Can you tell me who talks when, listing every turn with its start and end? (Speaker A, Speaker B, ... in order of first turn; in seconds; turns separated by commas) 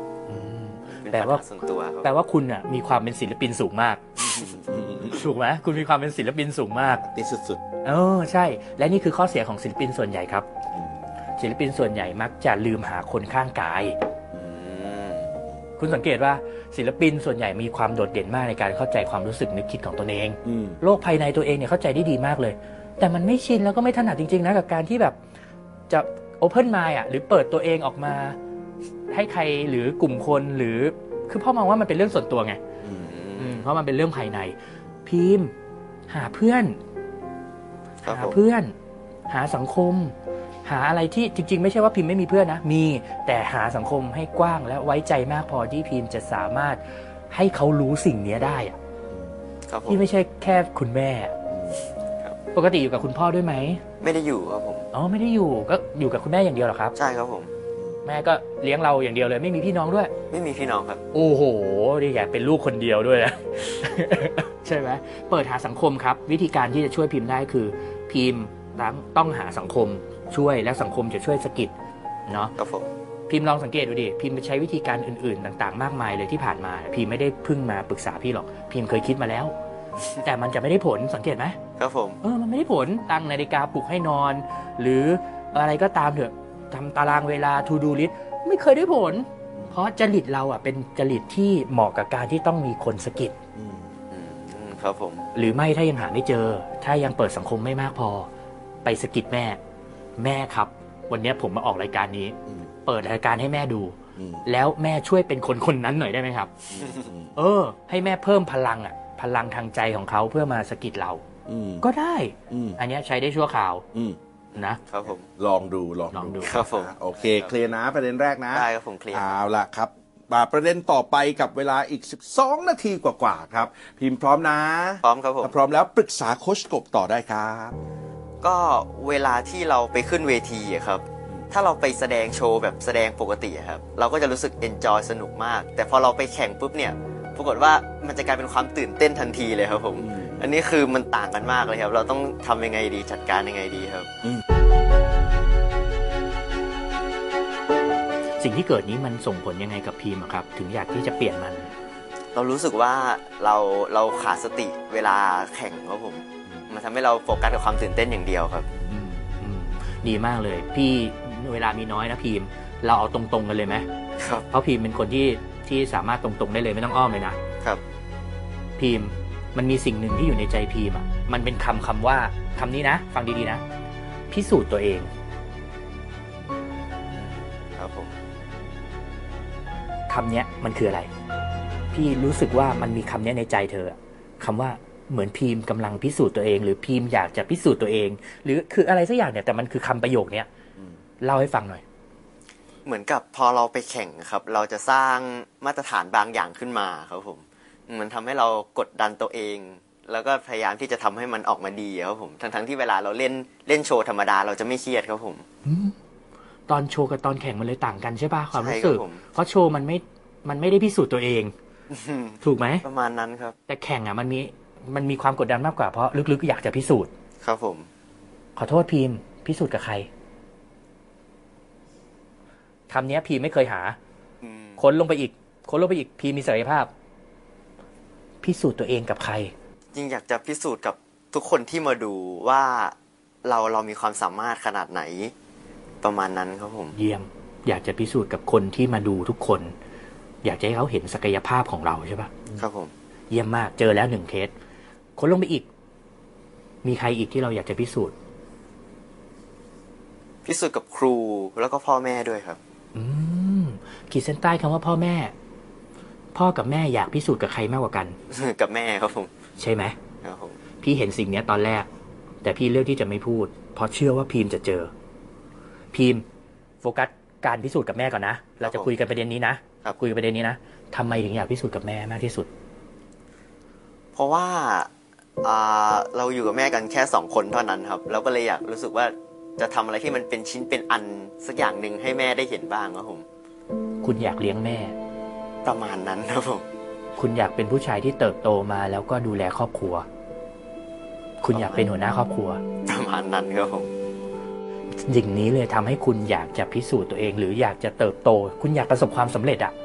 Speaker A: 0.3-1.4, Speaker B: 0.8-2.1, Speaker A: 2.0-4.1, Speaker B: 4.2-4.6, Speaker C: 4.4-5.2, Speaker A: 5.1-7.0, Speaker C: 7.0-7.6, Speaker A: 7.8-10.5, Speaker C: 10.7-11.0, Speaker A: 11.4-14.0, Speaker B: 14.4-15.3, Speaker A: 15.8-25.2, Speaker C: 20.4-20.8, Speaker A: 25.9-28.4, Speaker A: 29.1-32.6, Speaker B: 32.9-33.7, Speaker A: 33.4-35.5, Speaker A: 36.1-36.8, Speaker B: 38.0-38.4, Speaker A: 38.1-38.7, Speaker A: 39.3-48.8, Speaker C: 49.1-49.4, Speaker B: 49.7-50.0, Speaker A: 49.9-51.4, Speaker C: 51.5-51.8, Speaker A: 52.5-53.8, Speaker B: 54.0-54.9, Speaker A: 54.9-56.9, Speaker B: 56.9-57.5, Speaker C: 57.8-58.0, Speaker A: 58.0-60.1, Speaker B: 60.3-61.0, Speaker A: 61.1-71.7, Speaker A: 72.3-72.5, Speaker B: 72.6-72.9, Speaker A: 73.3-79.5, Speaker A: 80.2-81.6, Speaker B: 81.8-82.2, Speaker A: 82.2-93.3, Speaker C: 93.5-93.9, Speaker B: 94.1-95.3, Speaker A: 95.3-98.3, Speaker A: 98.8-99.6, Speaker A: 100.2-106.5, Speaker C: 104.2-104.4, Speaker C: 106.7-107.4, Speaker B: 106.8-107.1, Speaker A: 107.3-111.2, Speaker C: 111.5-111.8, Speaker A: 111.8-113.8, Speaker C: 112.5-112.8, Speaker C: 113.9-114.2, Speaker A: 114.5-114.8, Speaker B: 114.8-115.2, Speaker C: 115.0-127.8, Speaker A: 116.1-116.6, Speaker B: 116.4-117.5, Speaker B: 118.5-119.4, Speaker B: 125.0-125.5, Speaker B: 128.4-144.1, Speaker C: 140.0-140.4, Speaker A: 148.4-151.7, Speaker B: 152.3-158.7, Speaker A: 158.9-163.9, Speaker B: 164.2-164.5, Speaker A: 164.5-167.4, Speaker A: 168.8-173.6, Speaker A: 174.3-175.1, Speaker B: 177.1-178.1, Speaker A: 180.1-181.1, Speaker A: 181.9-190.5, Speaker A: 191.2-191.8, Speaker B: 192.8-205.4, Speaker A: 205.6-205.9, Speaker A: 206.7-211.5, Speaker B: 208.5-209.2, Speaker B: 211.9-213.6, Speaker A: 212.4-212.8, Speaker A: 213.7-217.1, Speaker B: 217.4-217.9, Speaker A: 218.6-220.1, Speaker A: 222.9-224.0, Speaker B: 224.4-224.8, Speaker A: 224.8-226.9, Speaker A: 228.4-229.5, Speaker B: 229.9-235.3, Speaker B: 236.0-236.9, Speaker A: 236.9-239.7, Speaker A: 240.4-242.3, Speaker B: 242.6-242.9, Speaker A: 243.3-244.5, Speaker A: 245.2-245.7, Speaker A: 246.8-248.1, Speaker B: 250.4-252.6, Speaker A: 252.9-255.3, Speaker A: 256.3-258.2, Speaker B: 258.3-259.4, Speaker A: 259.6-260.0, Speaker B: 260.2-260.6, Speaker A: 260.8-261.9, Speaker A: 262.4-264.9, Speaker A: 265.9-266.2, Speaker A: 266.8-272.5, Speaker B: 268.6-268.9, Speaker B: 274.1-274.9, Speaker B: 275.4-283.2, Speaker A: 284.0-284.9, Speaker B: 285.6-286.6, Speaker A: 287.2-290.1, Speaker A: 291.4-292.6, Speaker B: 291.5-291.9, Speaker B: 292.8-293.9, Speaker A: 295.0-299.7